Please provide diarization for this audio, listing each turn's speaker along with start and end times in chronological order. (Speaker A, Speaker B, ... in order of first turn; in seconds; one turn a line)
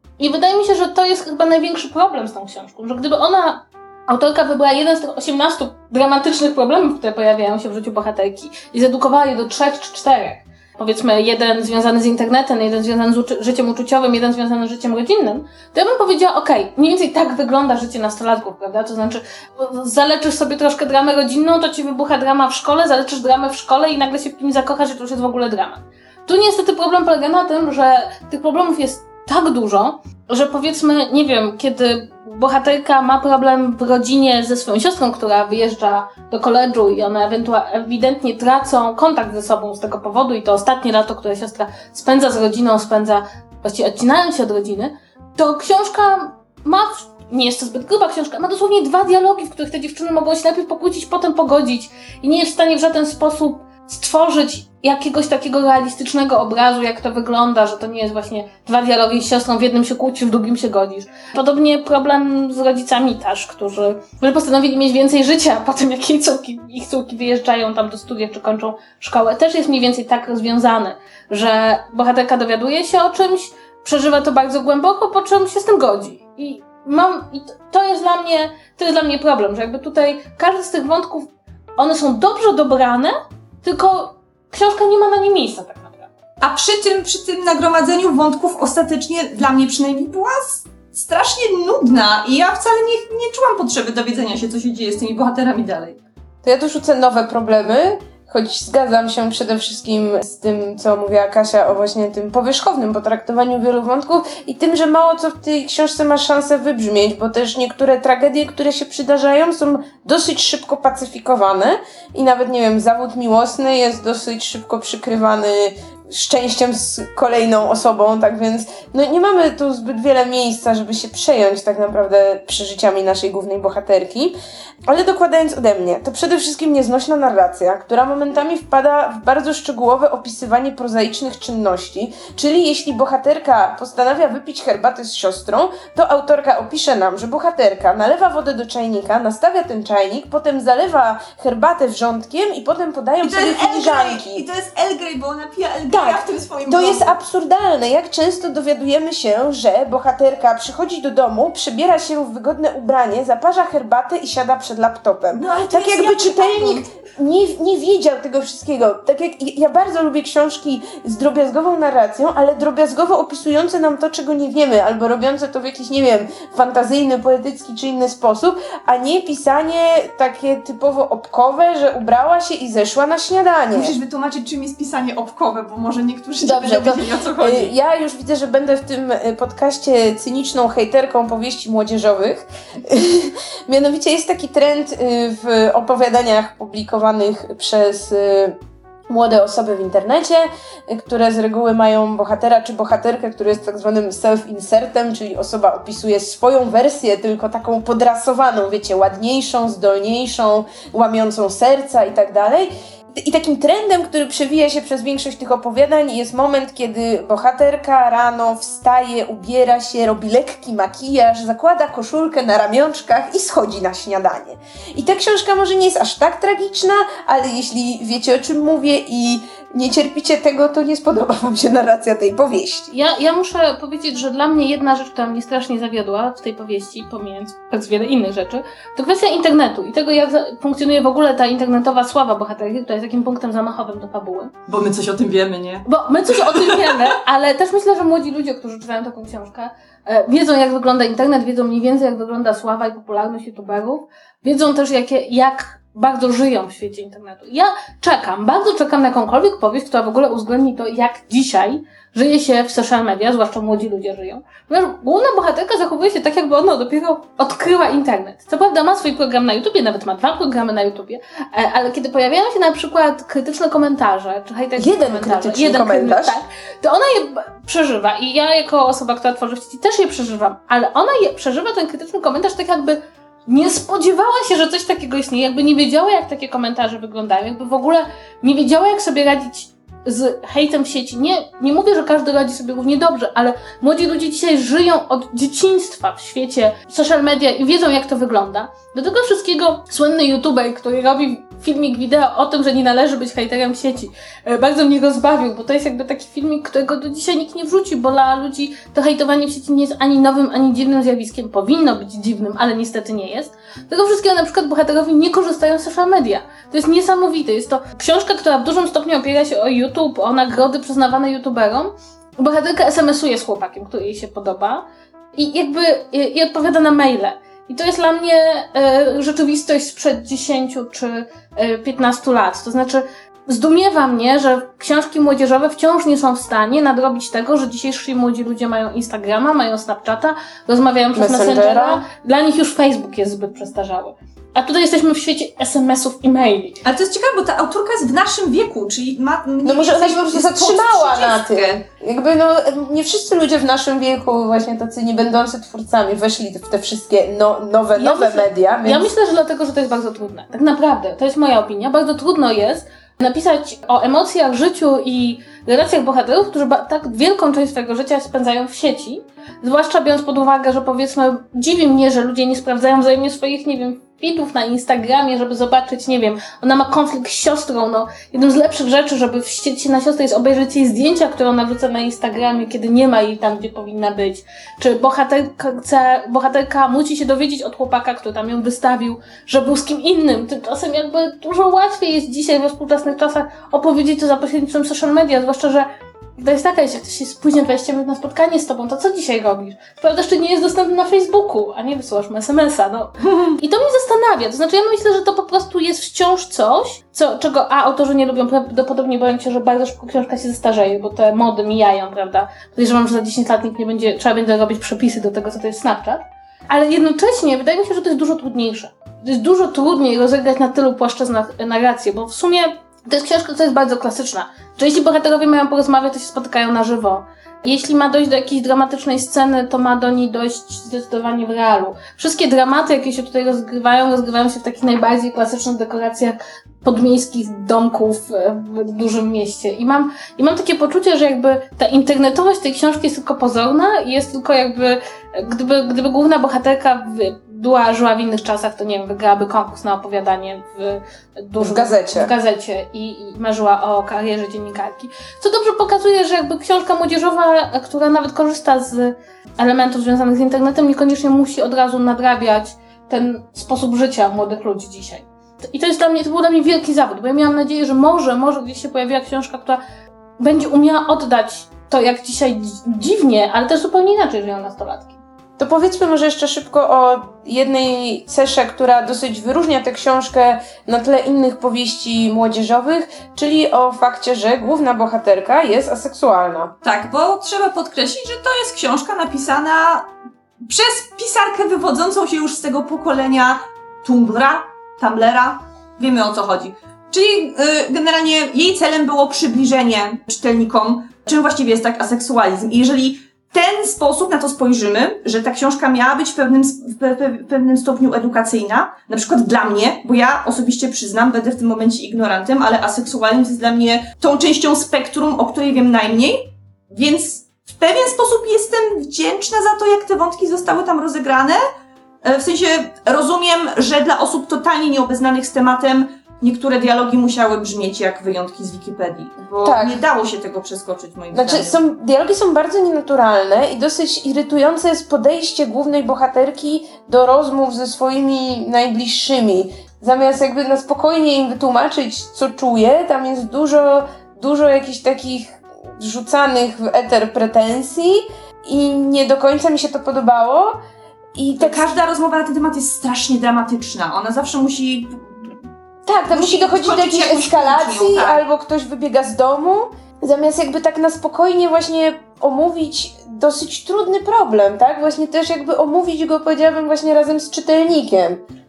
Speaker A: 0.2-86.1
Speaker B: 86.4-96.0
Speaker C: 96.4-124.3
Speaker C: 124.9-144.4
Speaker B: 143.2-147.1
Speaker C: 145.9-173.9
Speaker B: 155.3-156.9
Speaker B: 173.7-177.7
Speaker C: 176.4-222.9
Speaker A: 222.9-234.5
Speaker B: 234.7-237.1
Speaker A: 235.8-336.8
Speaker C: 264.8-266.4
Speaker C: 331.1-332.0
Speaker B: 336.8-341.8
Speaker C: 339.6-349.1
Speaker A: 347.9-459.8
Speaker C: 441.6-442.3
Speaker A: 460.4-465.2
Speaker C: 465.6-476.7
Speaker B: 476.8-480.1
Speaker B: 480.6-511.6
Speaker B: 512.2-521.8
Speaker C: 519.6-520.0
Speaker C: 521.3-540.8
Speaker C: 541.4-541.9
Speaker B: 541.6-545.5
Speaker C: 546.0-558.4
Speaker B: 546.3-548.4